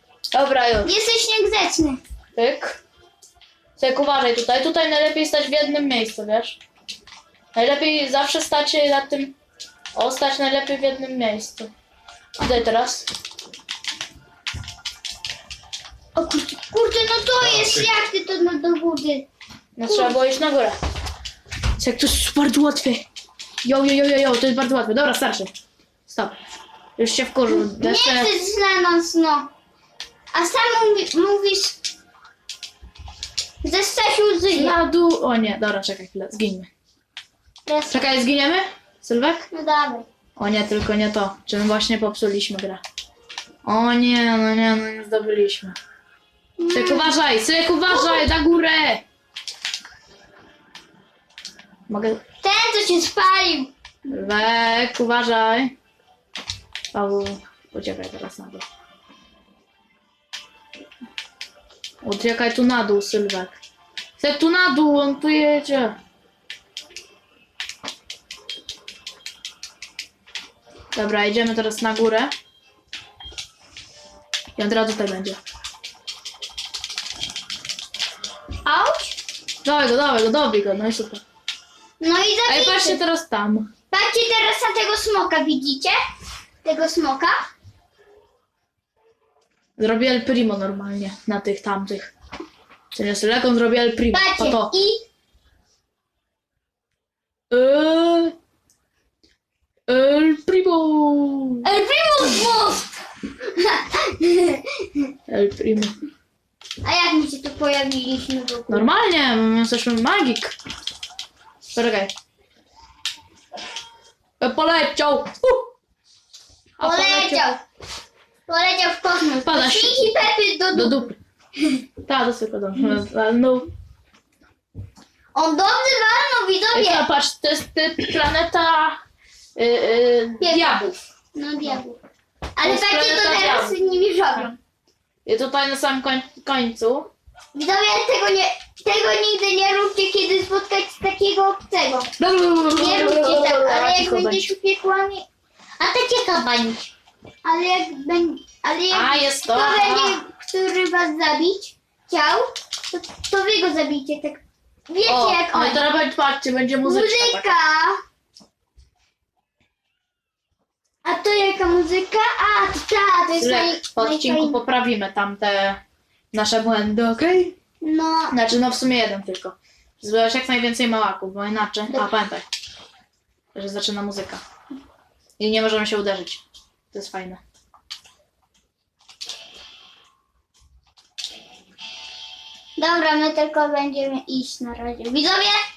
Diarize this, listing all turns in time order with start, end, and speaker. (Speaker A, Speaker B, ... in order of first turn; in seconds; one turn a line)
Speaker A: 0.3-0.9
Speaker B: 0.8-2.0
Speaker A: 2.4-2.8
Speaker A: 3.8-6.6
Speaker A: 7.5-9.3
Speaker A: 9.9-11.7
Speaker A: 12.4-13.1
Speaker B: 16.1-19.3
Speaker A: 19.8-20.8
Speaker B: 19.9-20.2
Speaker A: 21.8-23.0
Speaker A: 23.6-25.5
Speaker A: 26.1-26.4
Speaker A: 27.0-28.3
Speaker B: 27.5-29.5
Speaker B: 30.3-31.8
Speaker B: 33.6-34.8
Speaker A: 34.5-36.7
Speaker B: 37.6-38.1
Speaker A: 37.9-39.5
Speaker B: 39.5-40.1
Speaker A: 40.4-42.8
Speaker A: 43.6-45.8
Speaker B: 46.6-47.1
Speaker A: 46.7-49.0
Speaker B: 47.9-48.2
Speaker A: 51.9-52.2
Speaker B: 52.4-53.7
Speaker A: 54.1-55.7
Speaker A: 56.9-58.6
Speaker A: 62.0-63.6
Speaker A: 64.2-66.0
Speaker A: 70.9-72.3
Speaker A: 74.6-75.4
Speaker B: 78.6-79.2
Speaker A: 79.6-81.2
Speaker B: 82.0-83.0
Speaker A: 82.5-83.7
Speaker B: 83.9-86.0
Speaker B: 86.6-87.5
Speaker A: 89.8-92.1
Speaker A: 92.9-94.7
Speaker B: 94.1-95.0
Speaker A: 97.5-98.3
Speaker A: 99.9-101.7
Speaker B: 101.6-105.1
Speaker A: 105.3-105.9
Speaker B: 106.8-108.9
Speaker A: 108.7-110.5
Speaker A: 111.7-112.1
Speaker A: 114.4-115.7
Speaker A: 116.8-117.5
Speaker B: 116.8-117.6
Speaker B: 118.5-121.0
Speaker A: 119.4-121.2
Speaker A: 122.0-123.7
Speaker B: 125.3-127.0
Speaker A: 126.7-129.0
Speaker A: 129.5-131.0
Speaker B: 130.4-132.0
Speaker B: 132.5-134.6
Speaker A: 132.6-133.8
Speaker A: 135.2-137.1
Speaker B: 137.5-142.1
Speaker A: 142.2-144.5
Speaker B: 142.7-145.2
Speaker B: 145.8-146.9
Speaker B: 147.4-155.9
Speaker A: 148.9-150.2
Speaker A: 155.1-157.5
Speaker B: 156.8-158.0
Speaker B: 161.0-164.6
Speaker A: 163.4-165.8
Speaker A: 166.3-167.6
Speaker B: 167.8-168.4
Speaker A: 168.3-172.4
Speaker A: 173.5-174.4
Speaker A: 175.4-177.4
Speaker B: 182.8-185.6